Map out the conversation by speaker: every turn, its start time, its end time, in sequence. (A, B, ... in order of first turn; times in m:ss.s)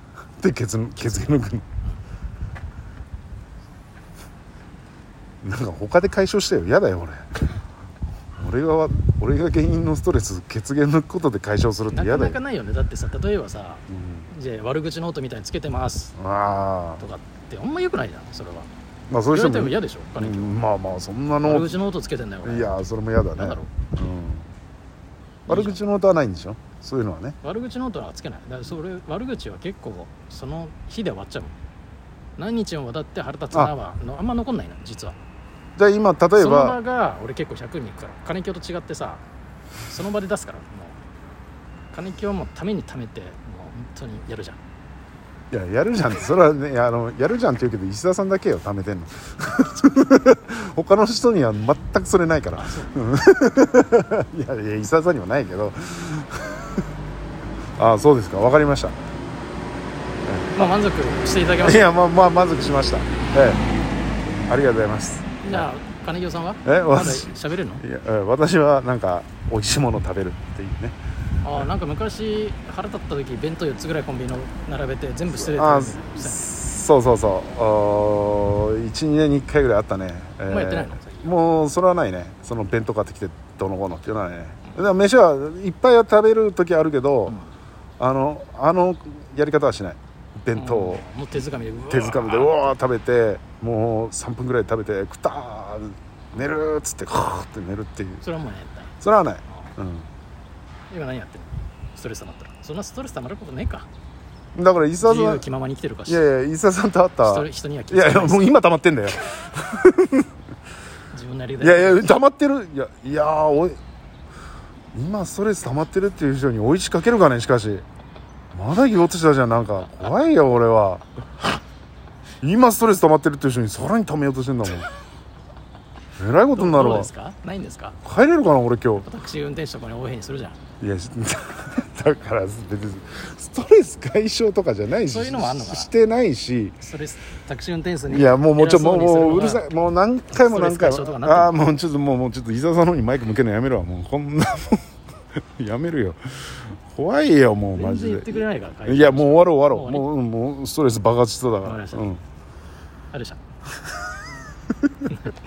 0:00.4-0:01.7 A
0:05.4-0:07.4 A
0:08.4-0:12.4 A
0:11.9-0:16.2 B
0:13.9-0:14.3 A
0:16.2-0:17.0 A
0:17.0-0:18.7 B
0:19.1-0:21.8 A
0:19.3-0:20.6 B
0:21.4-0:22.8 B
0:22.4-0:24.5 A
0:23.3-0:23.7 B
0:25.5-0:25.8 B
0:25.5-0:27.4 A
0:27.4-0:31.6 B
0:32.4-0:35.2 B
0:35.8-0:36.8 A
0:36.4-0:39.2 B
0:39.9-0:41.0 B
0:41.9-0:44.6 B
0:45.5-0:56.6 A
0:52.6-0:53.0 B
0:57.8-0:59.0 A
1:00.2-1:00.8 A
1:00.6-1:02.0 B
1:01.6-1:03.6 A
1:04.5-1:05.6 A
1:05.4-1:07.8 B
1:06.6-1:11.0 A
1:11.4-1:16.5 B
1:15.3-1:27.4 A
1:20.5-1:21.4 B
1:28.0-1:31.0 A
1:30.5-1:32.8 B
1:31.9-1:38.2 A
1:38.2-1:39.0 B
1:39.0-1:40.1 A
1:39.5-1:39.7 B
1:40.9-1:43.9 B
1:44.6-1:45.4 A
1:45.0-1:46.2 B
1:46.1-1:50.3 A
1:47.2-1:48.6 B
1:51.1-1:52.2 B
1:51.6-1:53.8 A
1:54.9-1:57.8 A
1:58.5-2:01.0 A
2:02.4-2:04.9 A
2:06.2-2:07.1 A
2:06.5-2:08.0 B
2:08.0-2:09.1 A
2:09.0-2:10.6 B
2:10.8-2:16.8 A
2:15.1-2:16.0 B
2:16.8-2:19.8 B
2:18.1-2:24.9 A
2:20.3-2:21.6 B
2:25.6-2:32.2 A
2:27.8-2:30.1 B
2:31.6-2:32.1 B
2:33.1-2:33.4 B
2:34.7-2:35.1 A
2:35.1-2:35.4 B